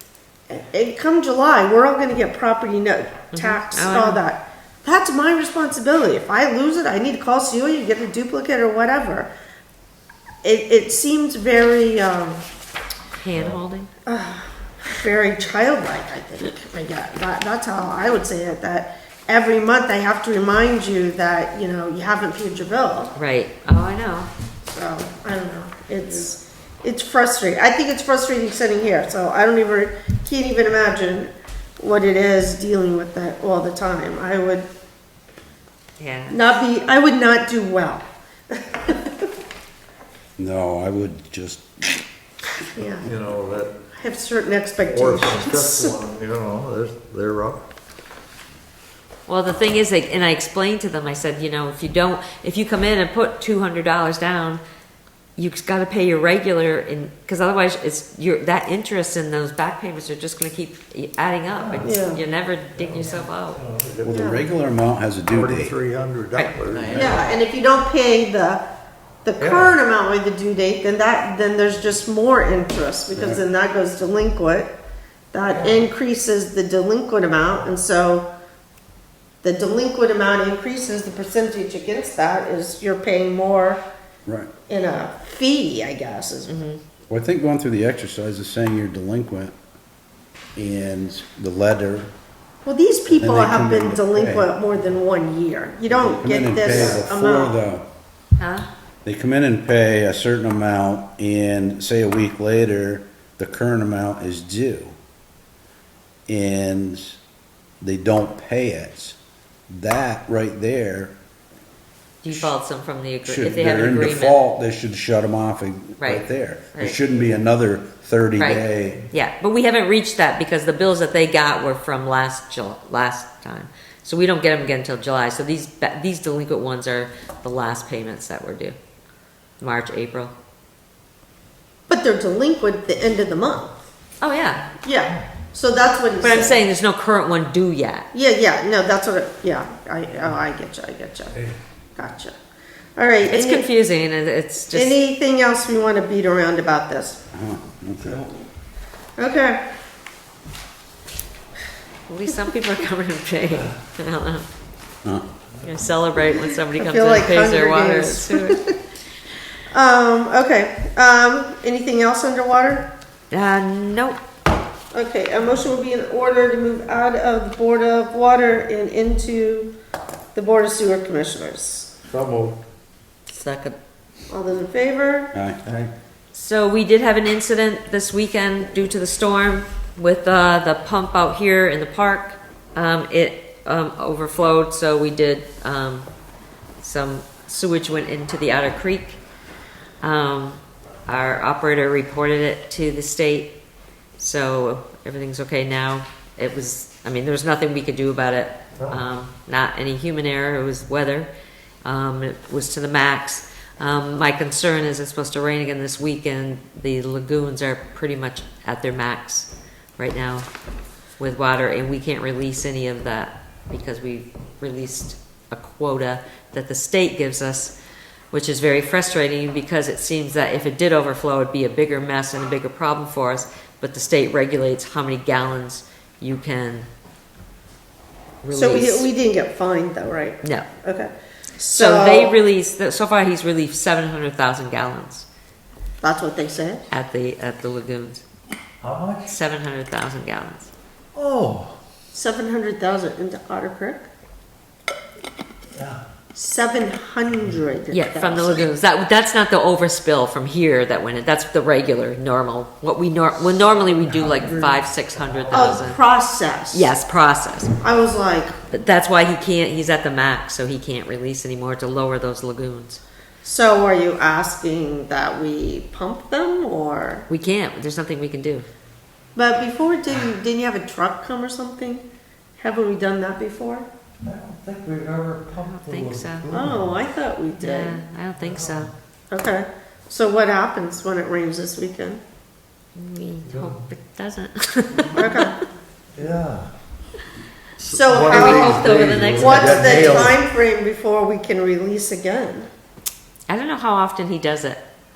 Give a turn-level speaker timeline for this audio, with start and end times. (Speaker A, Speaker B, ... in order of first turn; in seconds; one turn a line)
Speaker A: 0.5-9.3
Speaker B: 3.3-4.2
Speaker A: 10.4-12.4
Speaker B: 13.2-13.9
Speaker A: 14.1-23.1
Speaker B: 23.1-24.3
Speaker A: 24.7-34.7
Speaker B: 36.0-36.5
Speaker A: 36.3-39.2
Speaker C: 40.4-42.0
Speaker A: 42.7-43.1
Speaker D: 43.0-43.7
Speaker A: 43.9-46.0
Speaker D: 44.9-47.6
Speaker B: 49.3-54.6
Speaker B: 55.4-63.6
Speaker D: 61.5-61.9
Speaker A: 61.8-62.2
Speaker D: 62.8-64.2
Speaker C: 64.0-65.7
Speaker A: 64.1-64.4
Speaker D: 65.3-67.3
Speaker B: 66.3-67.2
Speaker A: 66.9-68.6
Speaker A: 69.2-74.7
Speaker D: 69.4-69.7
Speaker C: 73.1-73.4
Speaker A: 75.3-78.3
Speaker D: 75.5-75.9
Speaker A: 79.4-83.8
Speaker C: 84.2-84.5
Speaker A: 84.7-86.6
Speaker B: 86.5-86.8
Speaker C: 87.1-89.5
Speaker C: 90.5-92.1
Speaker A: 92.6-97.6
Speaker C: 93.2-94.5
Speaker C: 95.9-97.8
Speaker D: 96.6-96.9
Speaker B: 98.4-98.7
Speaker C: 99.0-105.0
Speaker C: 106.3-107.2
Speaker C: 107.8-109.2
Speaker C: 109.7-111.1
Speaker B: 112.2-114.4
Speaker C: 113.2-119.0
Speaker B: 116.0-117.0
Speaker B: 118.4-128.8
Speaker B: 129.6-130.3
Speaker A: 131.9-133.8
Speaker B: 134.2-134.7
Speaker A: 134.8-136.6
Speaker B: 136.2-138.1
Speaker A: 138.1-141.4
Speaker A: 141.9-142.3
Speaker A: 142.9-143.7
Speaker B: 143.3-145.0
Speaker A: 144.7-147.2
Speaker C: 147.3-148.3
Speaker A: 149.2-149.6
Speaker B: 152.1-154.5
Speaker B: 155.6-158.6
Speaker A: 156.7-158.8
Speaker A: 159.7-162.9
Speaker B: 163.3-164.2
Speaker A: 164.9-169.7
Speaker A: 170.3-171.9
Speaker D: 172.1-172.6
Speaker B: 173.3-173.7
Speaker A: 174.3-175.3
Speaker C: 175.3-175.6
Speaker B: 176.3-186.1
Speaker B: 186.8-189.2
Speaker B: 190.0-193.5
Speaker B: 194.2-201.3
Speaker B: 201.8-210.5
Speaker B: 211.2-217.7
Speaker B: 218.3-226.9
Speaker B: 228.4-229.1
Speaker A: 228.5-232.3
Speaker B: 230.4-230.7
Speaker B: 231.7-235.2
Speaker A: 236.0-236.8
Speaker B: 236.9-238.2
Speaker D: 238.8-239.3
Speaker B: 239.2-240.7
Speaker D: 241.1-241.8
Speaker A: 242.1-244.1
Speaker D: 245.7-246.0
Speaker A: 246.3-248.7
Speaker B: 247.9-256.0
Speaker D: 254.1-255.8
Speaker A: 255.5-256.9
Speaker B: 256.7-257.7
Speaker A: 257.8-258.6
Speaker B: 258.7-263.0
Speaker A: 263.4-267.3
Speaker B: 267.3-268.7
Speaker A: 269.3-272.1
Speaker A: 272.6-273.9
Speaker D: 274.2-276.9
Speaker B: 275.6-276.5
Speaker A: 276.5-278.0
Speaker B: 277.6-278.9
Speaker D: 278.4-278.9
Speaker A: 279.3-282.2
Speaker B: 282.9-285.6
Speaker D: 283.5-283.8
Speaker A: 285.1-285.6
Speaker D: 286.1-286.7
Speaker D: 287.8-290.4
Speaker A: 287.8-292.7
Speaker B: 288.3-290.4
Speaker B: 293.5-294.8